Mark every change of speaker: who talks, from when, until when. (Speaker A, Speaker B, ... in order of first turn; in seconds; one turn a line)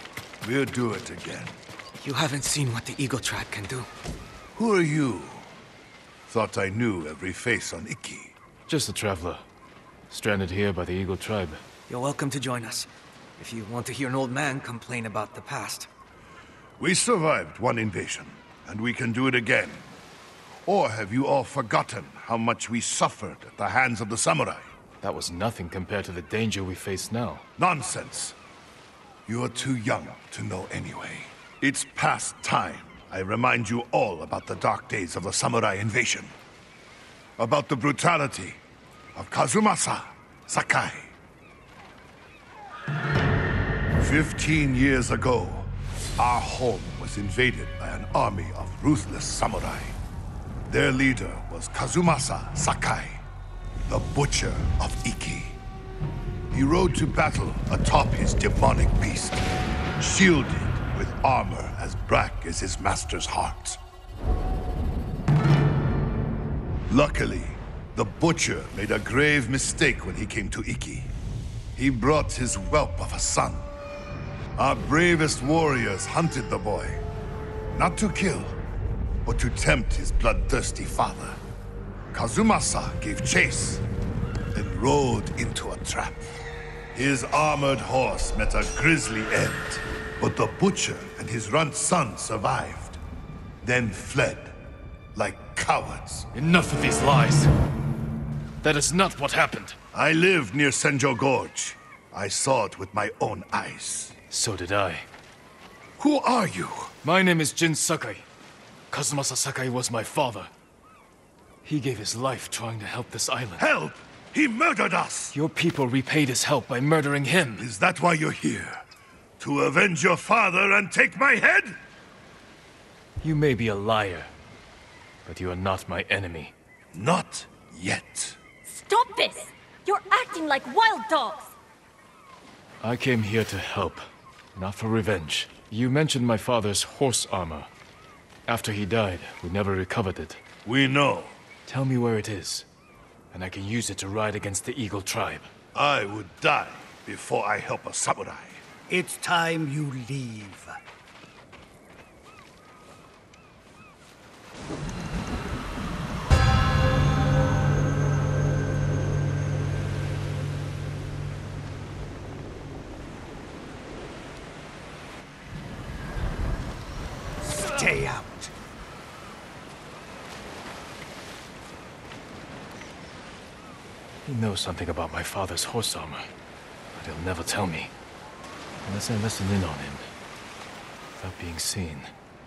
Speaker A: 0.4-1.6
Speaker B: 2.0-3.9
Speaker A: 4.5-5.5
Speaker A: 6.3-8.4
Speaker C: 8.7-9.4
Speaker C: 10.1-11.6
Speaker B: 11.9-15.9
Speaker A: 16.8-19.9
Speaker A: 20.7-24.6
Speaker C: 25.0-27.4
Speaker A: 27.6-28.4
Speaker A: 29.3-36.3
Speaker A: 37.4-38.6
Speaker A: 39.1-41.1
Speaker A: 44.0-50.0
Speaker A: 50.7-53.2
Speaker A: 53.9-55.6
Speaker A: 56.5-59.4
Speaker A: 60.0-63.8
Speaker A: 66.9-71.1
Speaker A: 71.8-73.7
Speaker A: 74.6-77.0
Speaker A: 77.7-78.6
Speaker A: 79.2-81.4
Speaker A: 82.1-83.8
Speaker A: 84.5-86.2
Speaker A: 86.9-93.0
Speaker A: 93.6-94.6
Speaker A: 95.2-96.3
Speaker C: 96.3-97.5
Speaker C: 98.6-99.8
Speaker A: 99.9-104.1
Speaker C: 104.3-105.1
Speaker A: 106.0-107.0
Speaker C: 107.0-108.2
Speaker C: 108.9-110.5
Speaker C: 111.6-113.7
Speaker A: 113.6-115.4
Speaker C: 115.3-117.7
Speaker A: 117.6-118.8
Speaker A: 119.4-121.8
Speaker C: 123.2-124.3
Speaker C: 125.3-126.5
Speaker A: 126.9-128.4
Speaker D: 128.7-131.5
Speaker C: 132.8-134.0
Speaker C: 134.6-137.7
Speaker C: 138.5-140.4
Speaker A: 140.7-141.4
Speaker C: 141.7-142.7
Speaker C: 143.3-145.5
Speaker A: 145.7-148.7
Speaker B: 148.9-150.8
Speaker B: 167.5-168.5
Speaker C: 174.2-176.3
Speaker C: 176.9-177.9
Speaker C: 178.8-180.1
Speaker C: 181.2-182.1